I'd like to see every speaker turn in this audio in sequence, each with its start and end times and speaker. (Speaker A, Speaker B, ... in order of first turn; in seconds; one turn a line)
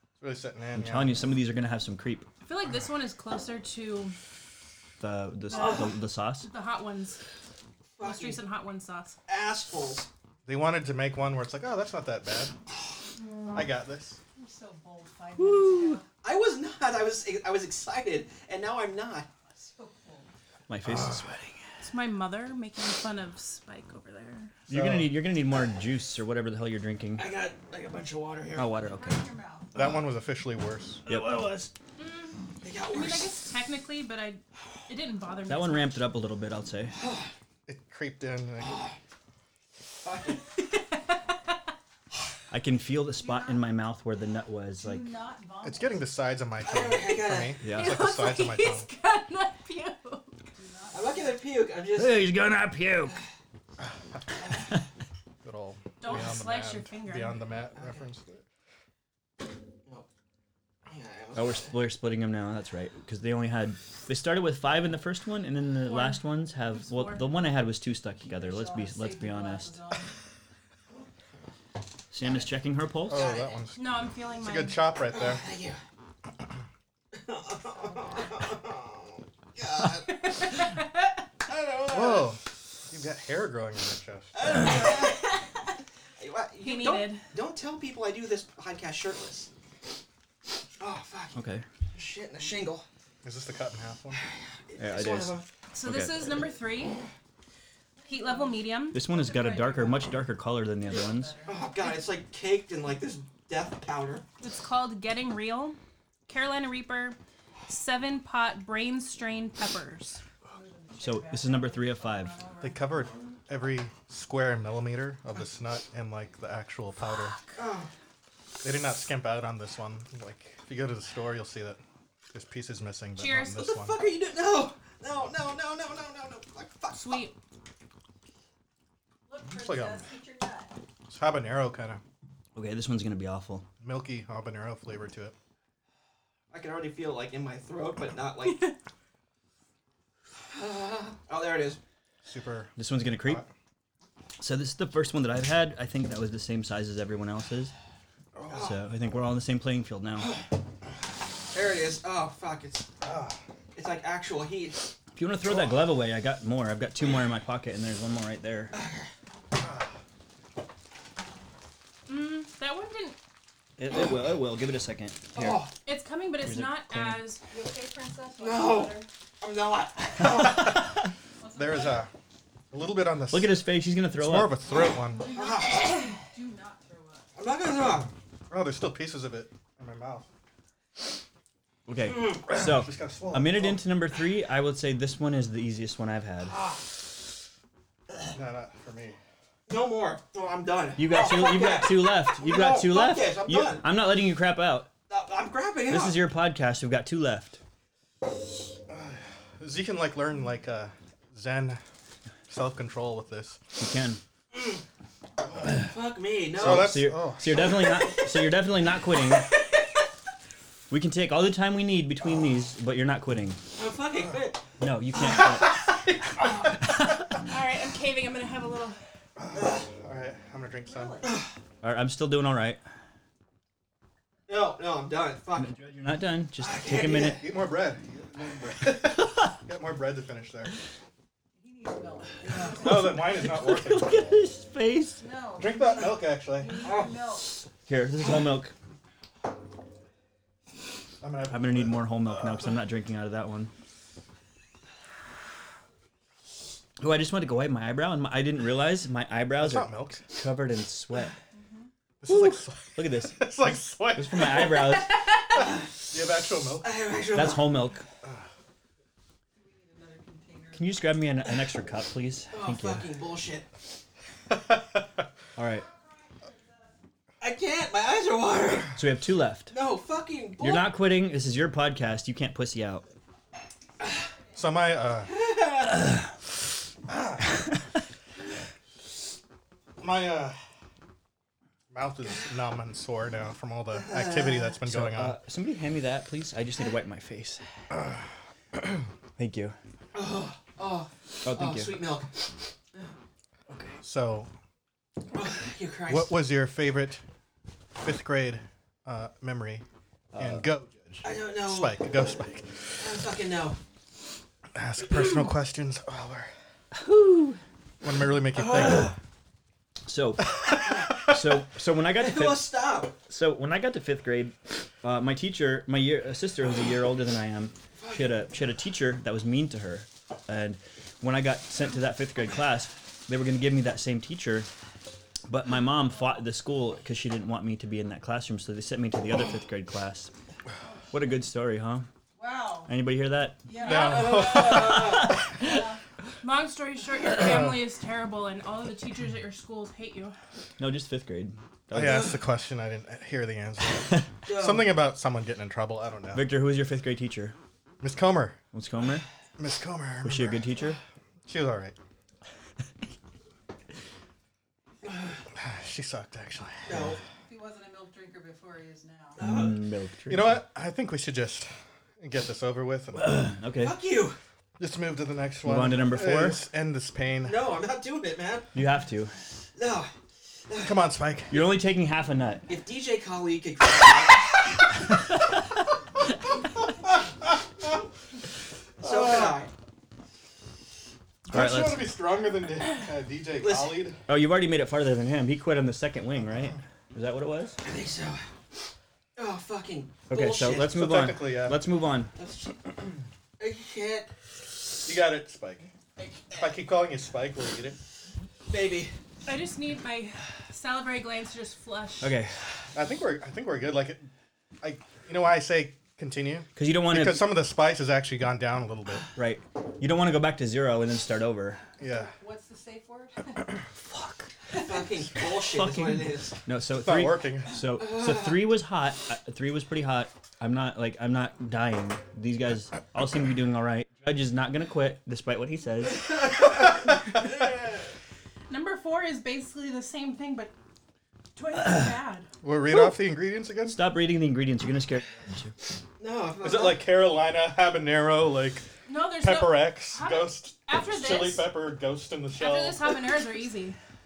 Speaker A: 0.2-1.2
Speaker B: 0.7-2.3
Speaker C: 2.4-4.2
Speaker B: 5.0-6.5
Speaker C: 5.5-7.2
Speaker D: 8.0-8.4
Speaker C: 8.0-9.2
Speaker D: 9.3-10.1
Speaker A: 10.4-12.5
Speaker A: 13.5-14.2
Speaker E: 14.3-16.1
Speaker B: 15.4-16.0
Speaker D: 16.2-19.3
Speaker E: 19.5-20.3
Speaker B: 20.7-21.6
Speaker C: 21.8-24.5
Speaker B: 24.7-27.3
Speaker A: 24.7-25.1
Speaker D: 27.1-28.8
Speaker B: 28.5-29.2
Speaker E: 28.8-29.7
Speaker A: 29.7-31.0
Speaker B: 31.1-31.7
Speaker C: 32.0-36.0
Speaker D: 32.6-33.4
Speaker B: 35.5-36.9
Speaker D: 37.0-37.3
Speaker A: 37.6-38.8
Speaker D: 38.6-38.9
Speaker D: 40.0-40.4
Speaker C: 40.6-41.6
Speaker B: 42.5-45.1
Speaker E: 43.2-43.7
Speaker E: 44.8-46.1
Speaker A: 45.6-48.9
Speaker D: 46.6-47.6
Speaker B: 47.6-48.0
Speaker C: 47.6-50.5
Speaker E: 50.5-51.5
Speaker D: 50.9-52.3
Speaker B: 52.0-53.1
Speaker E: 54.4-54.6
Speaker A: 55.4-58.4
Speaker C: 56.0-57.4
Speaker D: 60.9-61.7
Speaker B: 61.3-69.8
Speaker C: 65.8-67.3
Speaker E: 68.2-70.1
Speaker B: 72.1-73.2
Speaker A: 73.1-73.8
Speaker D: 73.1-73.4
Speaker C: 73.8-74.8
Speaker A: 74.4-75.4
Speaker D: 75.1-75.8
Speaker D: 77.1-80.4
Speaker E: 77.6-78.3
Speaker C: 80.0-81.1
Speaker D: 81.4-82.3
Speaker A: 81.9-84.7
Speaker D: 84.3-85.3
Speaker C: 84.9-85.6
Speaker D: 86.2-89.5
Speaker C: 86.6-87.3
Speaker D: 90.8-91.4
Speaker B: 91.3-91.6
Speaker D: 91.9-92.8
Speaker A: 93.2-94.2
Speaker D: 94.2-95.5
Speaker B: 94.8-96.2
Speaker C: 95.7-97.0
Speaker E: 98.0-100.2
Speaker C: 98.0-99.0
Speaker B: 98.9-101.3
Speaker E: 100.8-101.7
Speaker D: 101.5-104.2
Speaker C: 104.4-110.2
Speaker E: 110.5-113.2
Speaker B: 111.0-112.3
Speaker A: 112.6-117.4
Speaker D: 117.5-117.9
Speaker A: 118.6-121.8
Speaker A: 122.3-124.0
Speaker C: 123.2-123.7
Speaker D: 123.5-127.3
Speaker C: 126.9-127.3
Speaker E: 129.3-130.8
Speaker A: 129.5-130.1
Speaker A: 131.1-132.0
Speaker B: 132.5-133.7
Speaker A: 133.8-135.3
Speaker D: 136.5-138.7
Speaker D: 140.5-141.8
Speaker A: 142.2-143.5
Speaker B: 142.8-143.4
Speaker B: 144.4-147.7
Speaker D: 148.5-148.8
Speaker B: 148.5-150.3
Speaker D: 151.5-152.9
Speaker A: 153.0-153.4
Speaker D: 153.7-154.9
Speaker B: 155.1-158.7
Speaker D: 158.7-159.0
Speaker C: 162.1-163.2
Speaker B: 163.8-165.7
Speaker D: 165.3-165.7
Speaker C: 165.8-167.4
Speaker B: 166.4-167.3
Speaker E: 167.5-169.1
Speaker D: 168.4-170.7
Speaker A: 170.3-170.6
Speaker E: 171.4-172.1
Speaker A: 171.5-172.1
Speaker A: 172.7-173.6
Speaker B: 173.3-174.6
Speaker A: 174.2-175.3
Speaker E: 175.1-177.3
Speaker D: 175.2-176.2
Speaker D: 177.3-178.1
Speaker A: 178.5-180.3
Speaker B: 181.9-186.6
Speaker D: 182.1-182.4
Speaker A: 182.4-183.8
Speaker D: 186.5-186.8
Speaker A: 188.3-189.2
Speaker D: 189.7-193.9
Speaker B: 191.0-194.9
Speaker D: 195.1-196.2
Speaker B: 195.9-197.6
Speaker A: 198.9-201.8
Speaker A: 202.5-203.6
Speaker B: 203.8-204.2
Speaker D: 205.7-206.9
Speaker B: 206.6-209.5
Speaker A: 206.6-207.7
Speaker B: 210.9-213.6
Speaker D: 213.7-214.6
Speaker B: 214.8-217.2
Speaker C: 217.4-219.0
Speaker A: 219.4-221.2
Speaker E: 221.0-221.2
Speaker D: 221.2-221.5
Speaker B: 221.8-222.8
Speaker D: 224.5-225.7
Speaker B: 225.6-227.4
Speaker D: 226.6-227.4
Speaker A: 227.2-230.7
Speaker E: 231.6-233.2
Speaker A: 232.8-234.4
Speaker B: 232.8-235.2
Speaker E: 235.2-237.6
Speaker A: 235.6-236.9
Speaker D: 236.8-237.4
Speaker B: 237.8-238.7
Speaker A: 241.2-242.1
Speaker B: 241.5-243.7
Speaker B: 247.0-251.3
Speaker A: 249.6-250.3
Speaker E: 251.5-251.9
Speaker A: 252.2-254.5
Speaker B: 252.3-255.3
Speaker D: 255.5-255.9
Speaker A: 256.1-256.9
Speaker D: 256.8-257.8
Speaker B: 257.3-258.0
Speaker E: 259.5-261.1
Speaker B: 260.7-263.1
Speaker D: 262.5-263.7
Speaker A: 264.5-265.1
Speaker B: 265.6-265.9
Speaker D: 267.4-269.0
Speaker B: 268.9-269.7
Speaker D: 269.7-270.9
Speaker B: 270.6-273.1
Speaker A: 274.5-275.3
Speaker D: 275.2-276.0
Speaker A: 277.1-277.5
Speaker A: 280.0-280.6
Speaker A: 281.9-285.4
Speaker D: 284.1-284.6
Speaker B: 284.8-287.6
Speaker B: 289.4-289.7
Speaker D: 290.1-292.4
Speaker B: 291.4-292.0
Speaker B: 293.7-294.0
Speaker A: 294.0-294.5
Speaker D: 295.3-296.4
Speaker A: 296.1-297.2
Speaker A: 298.0-299.8
Speaker B: 300.3-300.7
Speaker A: 300.4-303.1
Speaker D: 301.2-302.0
Speaker D: 303.0-303.8
Speaker A: 304.7-306.5
Speaker B: 306.9-307.6
Speaker A: 308.0-309.1
Speaker B: 310.1-312.7
Speaker D: 312.1-313.1
Speaker B: 313.3-324.7
Speaker D: 318.0-318.3
Speaker B: 325.5-330.3
Speaker E: 330.8-331.3
Speaker B: 331.1-332.1
Speaker E: 332.4-332.9
Speaker B: 332.9-335.8
Speaker E: 333.6-334.4
Speaker A: 333.8-335.2
Speaker D: 333.9-335.4
Speaker E: 335.5-336.0
Speaker C: 336.4-340.4
Speaker B: 340.8-342.3
Speaker A: 341.9-346.5
Speaker D: 342.0-342.3
Speaker D: 344.4-345.0
Speaker B: 346.3-347.5
Speaker A: 348.0-348.6
Speaker B: 348.7-349.2
Speaker A: 349.6-350.8
Speaker B: 350.2-351.0
Speaker A: 351.4-351.9
Speaker A: 355.5-357.2
Speaker D: 356.9-357.2
Speaker E: 357.4-359.4
Speaker B: 359.4-360.6
Speaker D: 359.4-359.8
Speaker A: 360.3-361.7
Speaker A: 362.2-363.4
Speaker B: 363.2-363.9
Speaker D: 363.8-364.4
Speaker A: 364.8-367.6
Speaker B: 365.6-366.6
Speaker D: 367.4-368.7
Speaker B: 368.7-369.3
Speaker D: 369.8-370.1
Speaker D: 370.7-370.9
Speaker A: 370.8-371.6
Speaker B: 371.5-372.7
Speaker D: 372.7-374.6
Speaker A: 379.0-379.6
Speaker D: 379.0-379.7
Speaker B: 381.5-382.0
Speaker A: 381.5-384.2
Speaker D: 383.6-384.1
Speaker B: 384.3-387.8
Speaker D: 387.8-388.4
Speaker D: 389.4-390.9
Speaker B: 390.3-392.3
Speaker A: 390.9-391.8
Speaker D: 392.3-392.7
Speaker D: 393.6-394.3
Speaker A: 395.0-395.9
Speaker A: 396.6-398.0
Speaker D: 398.7-399.1
Speaker C: 399.4-402.3
Speaker B: 402.2-402.5
Speaker A: 402.9-404.3
Speaker A: 404.8-409.3
Speaker B: 406.8-407.6
Speaker B: 409.3-411.8
Speaker A: 412.0-412.3
Speaker E: 412.0-413.7
Speaker B: 414.0-414.5
Speaker D: 414.7-416.6
Speaker B: 415.5-426.7
Speaker A: 416.9-417.7
Speaker D: 418.0-418.5
Speaker D: 426.4-426.8
Speaker D: 427.3-427.7
Speaker C: 428.7-430.7
Speaker C: 431.5-432.5
Speaker A: 432.6-434.0
Speaker B: 433.9-435.7
Speaker D: 436.2-437.0
Speaker A: 436.6-438.9
Speaker C: 439.1-441.7
Speaker A: 439.4-443.1
Speaker C: 442.6-444.0